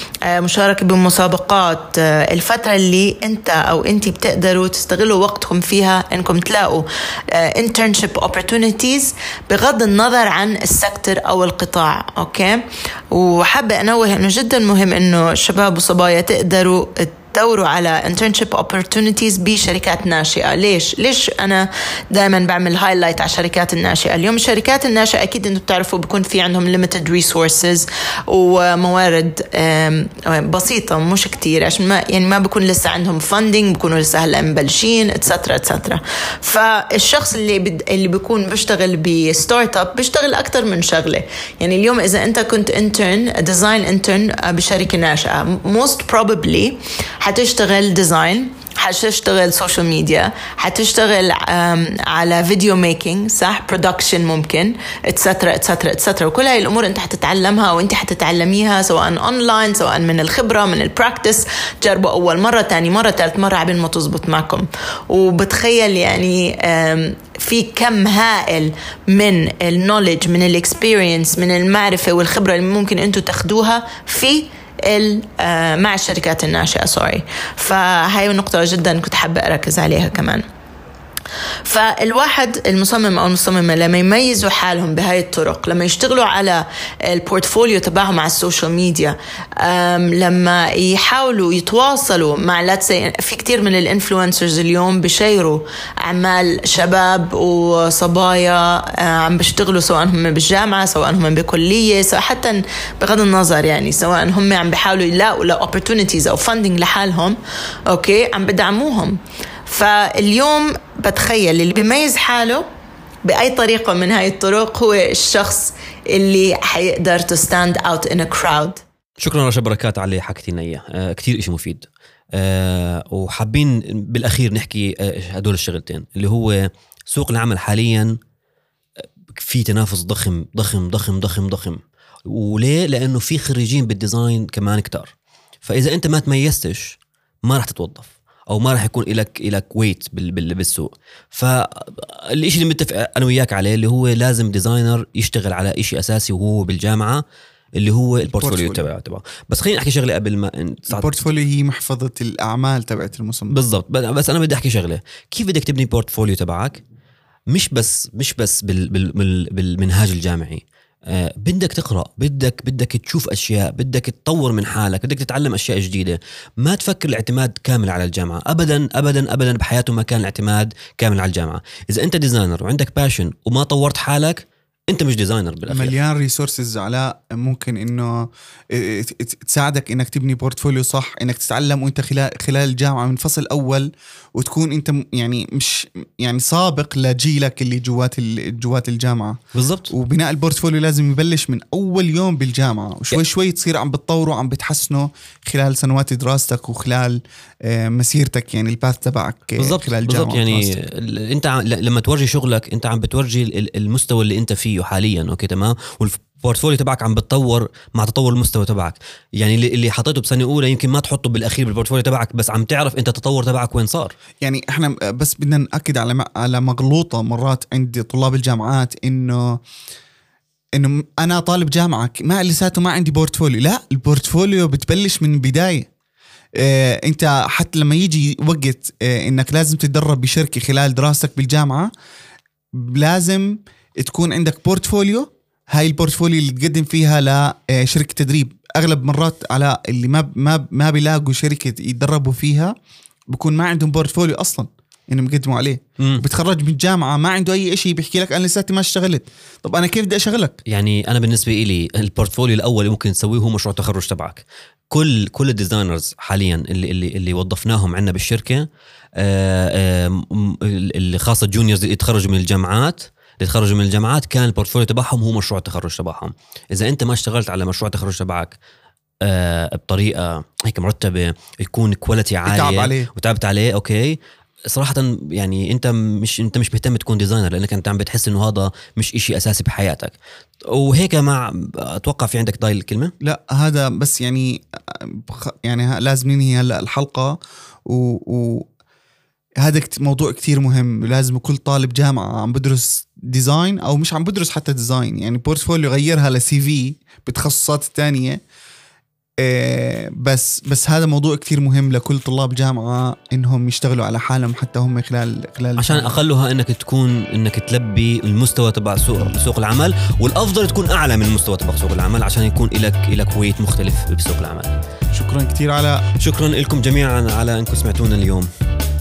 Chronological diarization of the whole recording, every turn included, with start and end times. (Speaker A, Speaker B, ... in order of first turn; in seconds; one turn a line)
Speaker A: 0.3-12.6
Speaker A: 13.1-80.4
Speaker A: 81.7-107.4
Speaker A: 107.9-112.6
Speaker A: 113.2-118.8
Speaker B: 119.2-128.2
Speaker B: 129.3-135.1
Speaker B: 135.6-147.2
Speaker B: 147.8-151.0
Speaker C: 148.4-148.8
Speaker C: 150.9-153.6
Speaker B: 153.5-156.8
Speaker B: 157.5-175.9
Speaker C: 175.7-189.4
Speaker B: 189.5-189.9
Speaker C: 189.9-200.7
Speaker B: 199.6-214.1
Speaker C: 214.4-219.6
Speaker C: 220.8-225.9
Speaker C: 226.6-231.9
Speaker C: 232.8-242.7
Speaker C: 243.3-250.6
Speaker B: 250.7-258.6
Speaker B: 259.2-268.6
Speaker B: 269.2-274.2
Speaker C: 272.4-273.1
Speaker B: 274.7-280.1
Speaker B: 280.7-283.1
Speaker C: 283.2-288.7
Speaker C: 289.6-298.4
Speaker C: 299.4-306.1
Speaker B: 305.8-314.7
Speaker C: 315.1-316.0
Speaker B: 316.2-318.5